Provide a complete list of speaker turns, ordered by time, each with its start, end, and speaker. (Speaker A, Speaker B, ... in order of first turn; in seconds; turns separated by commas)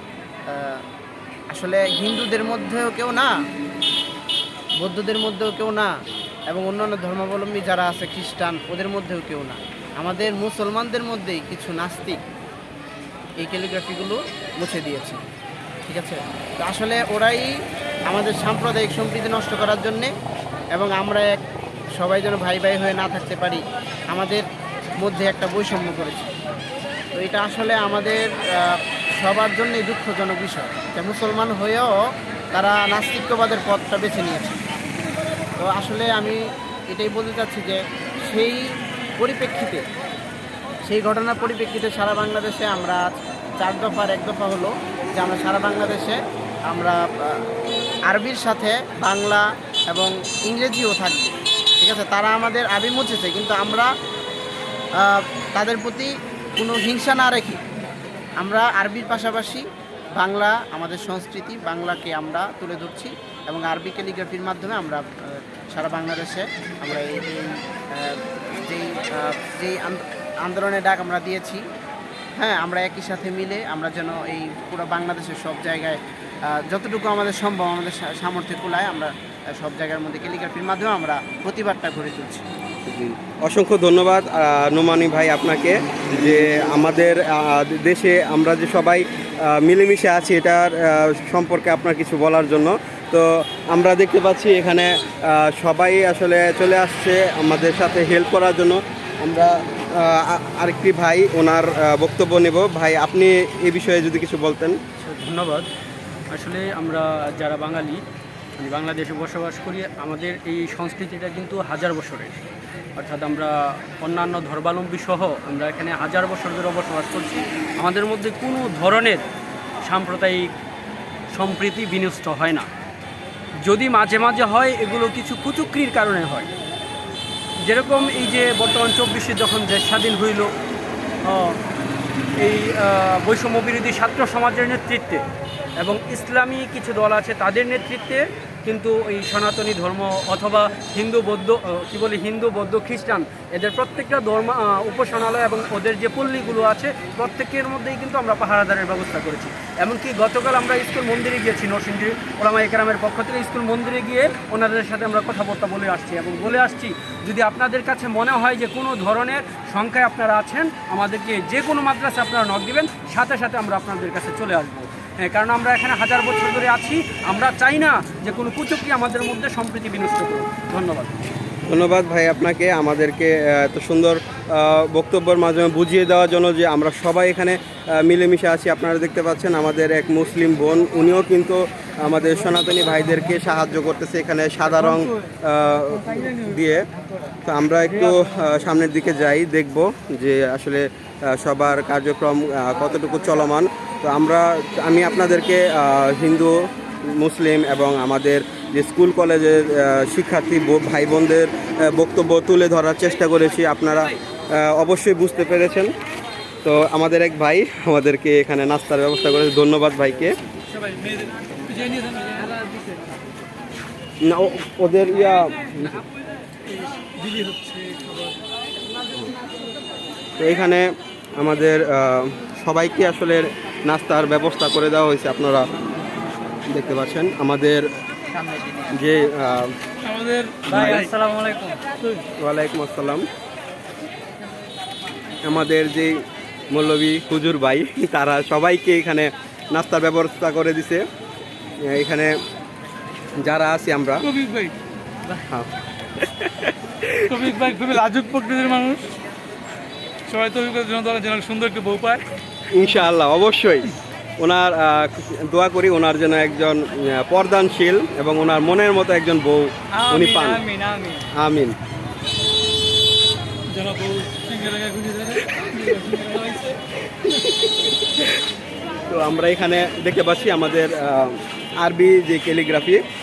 Speaker A: 0.5-0.8, Speaker A: 1.5-3.3, Speaker A: 4.8-5.9, Speaker A: 6.5-12.2, Speaker A: 13.4-15.2, Speaker A: 15.8-17.5, Speaker A: 18.1-20.1, Speaker A: 20.7-21.4, Speaker A: 22.0-24.4, Speaker A: 25.0-26.3, Speaker A: 27.1-31.9, Speaker A: 32.5-34.6, Speaker A: 35.6-39.8, Speaker A: 40.9-43.1, Speaker A: 43.6-46.2, Speaker A: 46.7-47.4, Speaker A: 48.1-53.9, Speaker A: 55.0-57.6, Speaker A: 58.4-71.6, Speaker A: 72.4-76.0, Speaker A: 76.5-82.4, Speaker B: 82.9-104.8, Speaker C: 105.0-105.7, Speaker C: 106.3-108.0, Speaker C: 108.6-112.4, Speaker C: 113.0-119.2, Speaker C: 119.8-120.5, Speaker C: 121.3-122.7, Speaker C: 123.6-126.5, Speaker C: 127.7-130.5, Speaker C: 131.2-131.6, Speaker C: 132.4-135.2, Speaker C: 135.8-171.1, Speaker B: 171.7-186.8, Speaker B: 187.4-205.9, Speaker B: 206.6-210.3, Speaker D: 210.8-212.9, Speaker B: 214.2-216.0, Speaker D: 216.7-218.4, Speaker B: 220.4-220.9, Speaker B: 221.4-225.7, Speaker B: 226.7-227.8, Speaker B: 228.9-229.7, Speaker D: 230.0-232.2, Speaker B: 230.7-231.1, Speaker B: 232.4-233.2, Speaker B: 235.4-236.2, Speaker B: 236.7-241.0, Speaker B: 241.8-242.3, Speaker B: 243.4-244.2, Speaker D: 244.2-244.7, Speaker B: 245.5-247.6, Speaker D: 247.3-249.1, Speaker D: 250.3-252.2, Speaker B: 252.7-260.6, Speaker D: 259.9-261.2, Speaker B: 261.4-261.7, Speaker D: 263.7-266.8, Speaker B: 267.1-268.4, Speaker B: 269.1-273.0